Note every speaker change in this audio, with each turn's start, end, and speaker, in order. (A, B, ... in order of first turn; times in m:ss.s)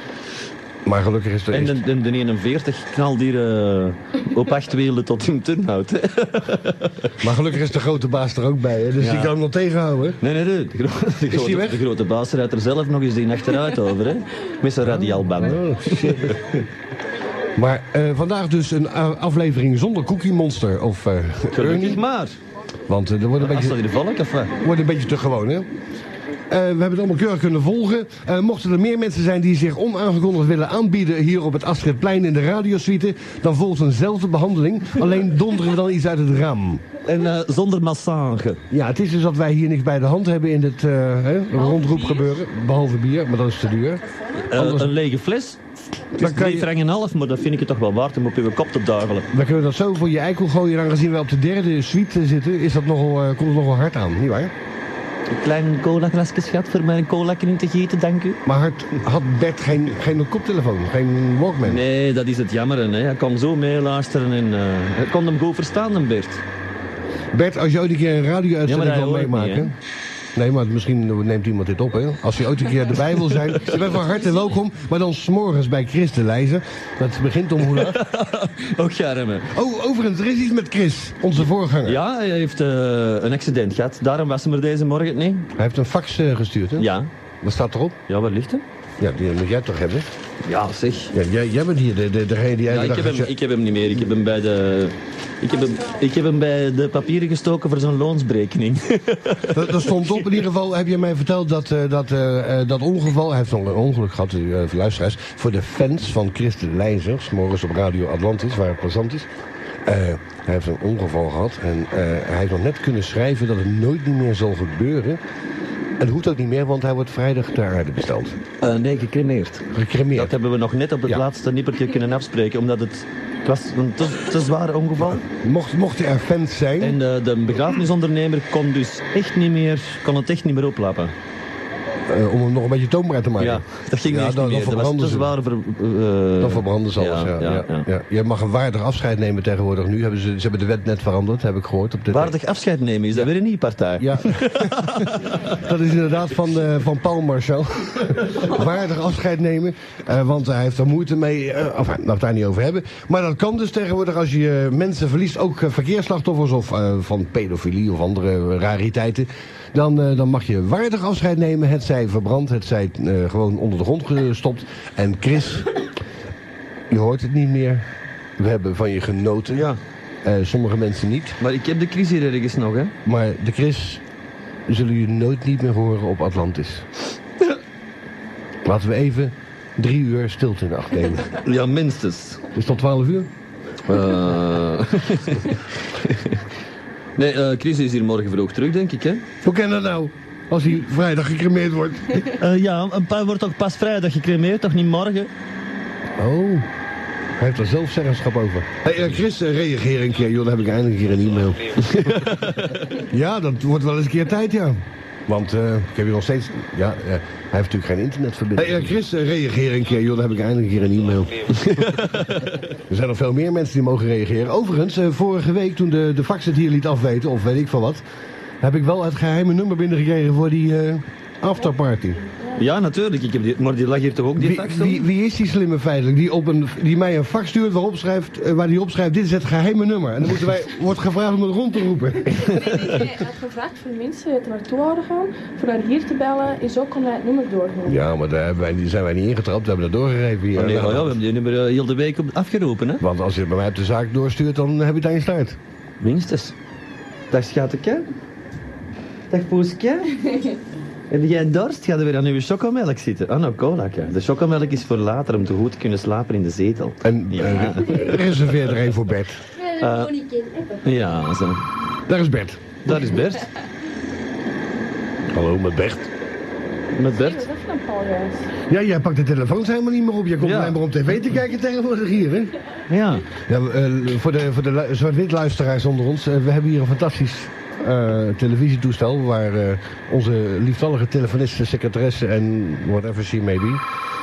0:00.8-0:01.8 A
0:01.5-0:07.2 B
0:07.2-0:10.2 A
0:09.0-0:09.3 B
0:10.2-0:16.4 B
0:11.3-0:11.9 A
0:14.8-0:16.6 A
0:17.6-0:22.0 A
0:21.5-0:22.4 B
0:22.9-0:23.8 A
0:23.4-0:24.5 B
0:24.6-0:25.7 A
0:26.5-0:36.8 A
0:37.0-0:38.6 B
0:38.7-0:44.9 A
0:41.6-0:42.2 C
0:44.5-0:45.6 B
0:46.2-0:49.3 B
0:46.2-0:46.7 A
0:49.3-0:54.5 A
0:55.3-0:58.4 B
0:58.4-1:01.8 A
1:01.6-1:06.4 B
1:07.3-1:09.7 A
1:08.6-1:09.7 B
1:10.3-1:18.0 A
1:17.7-1:19.5 B
1:19.5-1:22.0 A
1:21.8-1:25.5 B
1:25.6-1:26.9 A
1:26.8-1:27.1 B
1:27.4-1:28.0 A
1:28.1-1:28.6 B
1:29.0-1:30.1 A
1:30.4-1:31.1 B
1:31.1-1:33.3 A
1:32.7-1:40.4 B
1:39.4-1:49.3 A
1:49.8-1:55.2 A
1:56.0-1:58.4 A
1:58.6-2:05.2 B
1:59.7-2:00.3 A
2:05.1-2:07.0 A
2:06.8-2:11.1 B
2:12.1-2:15.4 A
2:13.4-2:17.9 B
2:16.4-2:22.3 A
2:22.1-2:25.5 B
2:24.0-2:45.8 A
2:46.9-2:47.8 A
2:48.4-2:49.7 A
2:49.5-2:49.8 B
2:50.2-2:51.4 A
2:51.4-2:52.9 B
2:53.0-2:54.0 A
2:54.7-2:56.8 A
2:58.6-3:01.4 A
3:01.4-3:02.4 B
3:02.5-3:03.3 A
3:03.9-3:06.4 B
3:07.2-3:09.2 B
3:09.4-3:12.2 A
3:12.1-3:15.3 B
3:16.2-3:16.7 A
3:17.4-3:32.1 A
3:21.8-3:22.8 B
3:31.5-3:32.6 B
3:32.8-3:38.0 A
3:38.6-3:42.2 A
3:42.6-3:45.0 B
3:44.4-3:53.1 A
3:52.5-3:58.0 C
3:57.8-4:01.2 A
4:00.6-4:03.0 B
4:03.0-4:05.6 A
4:06.0-4:06.5 B
4:07.3-4:08.1 B
4:09.3-4:10.4 B
4:11.1-4:18.7 B
4:17.0-4:19.4 A
4:19.6-4:20.3 B
4:20.8-4:21.6 B
4:22.1-4:22.8 A
4:22.8-4:23.5 B
4:25.3-4:26.1 A
4:26.9-4:27.4 B
4:27.1-4:28.5 C
4:28.7-4:32.6 A
4:30.4-4:30.8 B
4:32.9-4:33.3 B
4:33.3-4:43.8 A